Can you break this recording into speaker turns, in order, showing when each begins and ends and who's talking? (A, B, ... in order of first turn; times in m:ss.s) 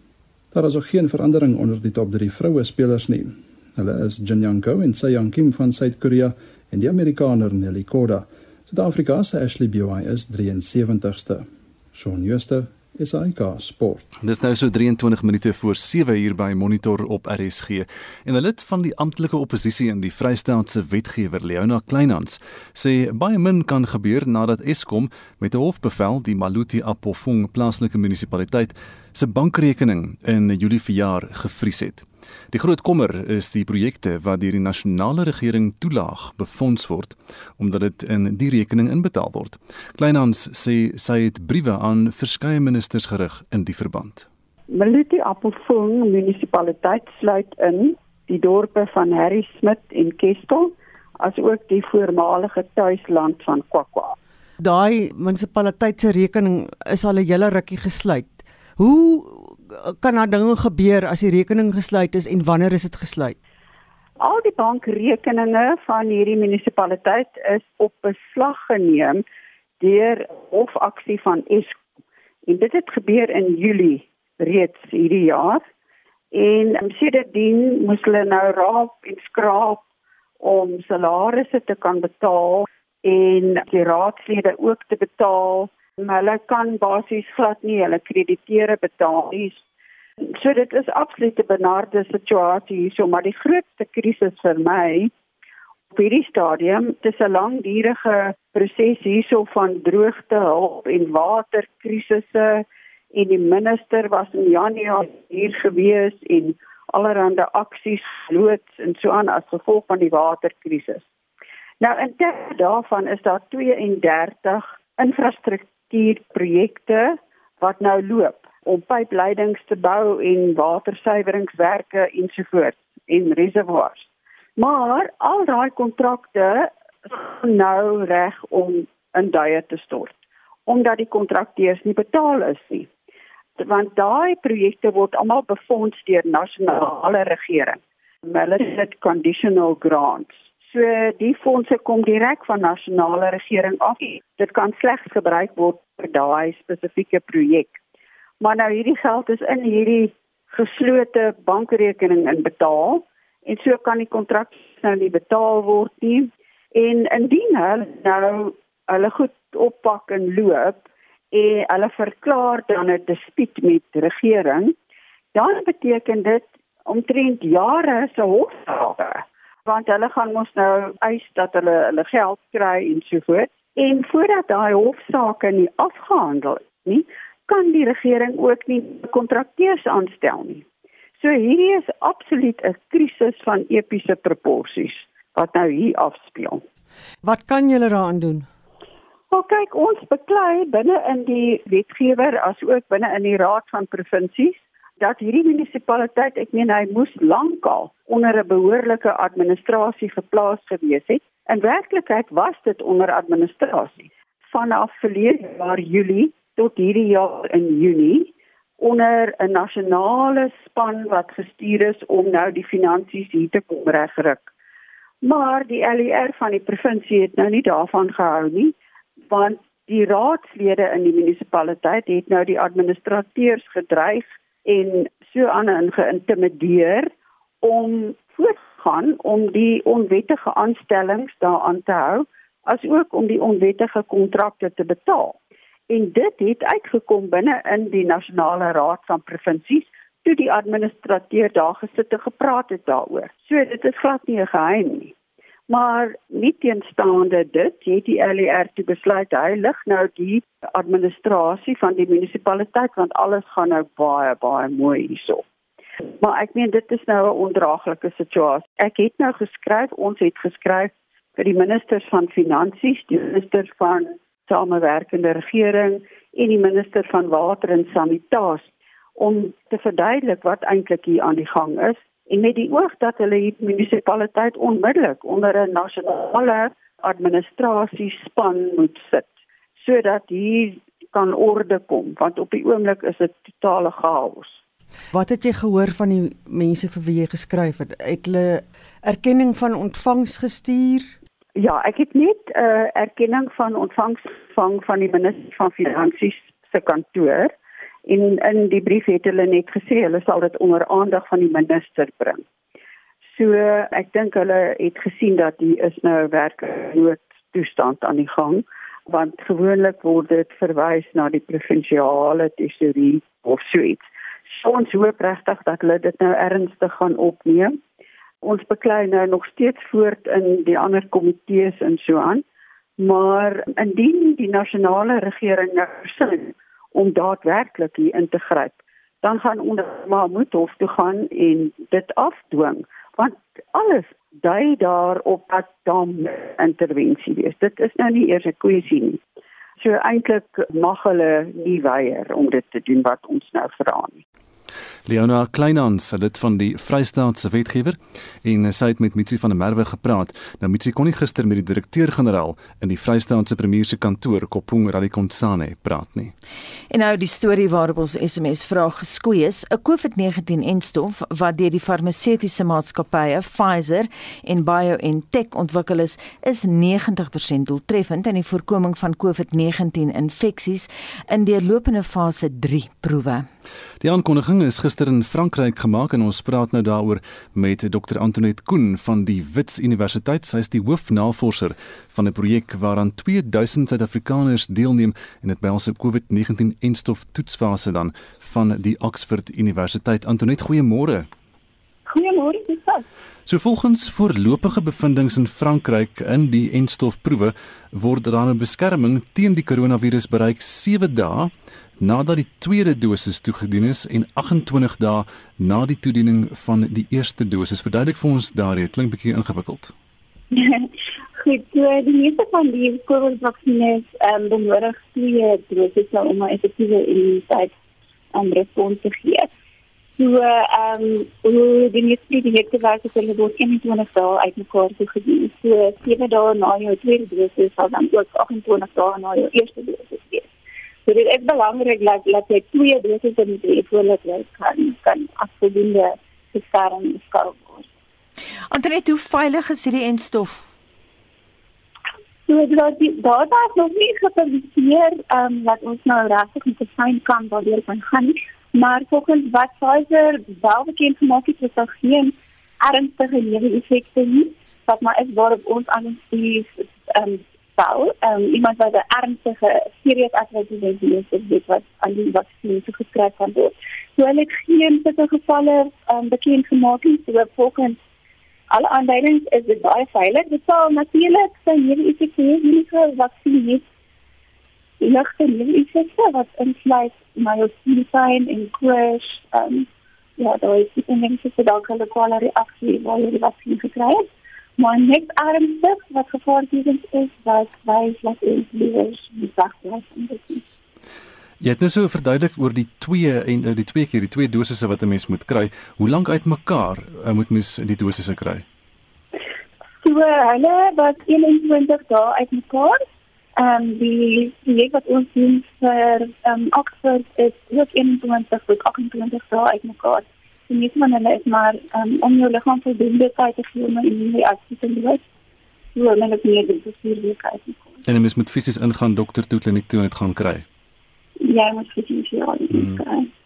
0:00.5-0:14.0 A
0:14.2-0:44.3 B
0:44.7-0:54.2 C
0:54.6-1:03.4 D
1:04.2-1:09.2 C
1:09.8-1:11.8 C
1:12.5-1:15.6 C
1:16.3-1:19.8 C
1:20.4-1:29.6 C
1:30.2-1:35.1 C
1:35.9-1:51.0 C
1:51.8-2:12.9 C
2:13.6-2:27.8 C
2:28.4-2:44.8 C
2:45.3-3:00.6 C
3:01.2-3:06.6 C
3:07.2-3:08.5 D
3:09.3-3:34.5 C
3:35.2-3:38.7 C
3:39.3-3:47.1 C
3:47.6-3:55.4 C
3:55.9-4:05.1 C
4:05.7-4:15.4 C
4:16.2-4:44.6 C
4:45.1-4:51.1 D
4:51.6-4:57.5 C
4:58.1-5:02.4 C
5:03.3-5:17.7 C
5:18.4-5:22.4 C
5:23.0-5:39.2 C
5:39.8-5:44.2 C
5:45.1-5:56.3 B
5:56.9-6:13.5 E
6:14.0-6:31.3 B
6:32.1-6:33.0 F
6:33.5-6:49.9 B
6:50.5-6:57.7 F
6:58.3-6:59.5 F
7:00.2-7:10.5 F
7:11.1-7:17.9 F
7:18.7-7:20.6 E
7:22.5-7:48.0 F
7:48.7-7:53.8 F
7:55.0-7:59.9 F
8:00.4-8:10.6 F
8:11.6-8:18.6 B
8:20.0-8:23.0 F
8:23.6-8:35.2 F
8:36.0-8:37.9 F
8:38.1-8:40.6 B
8:41.4-8:43.3 F
8:42.7-8:43.0 B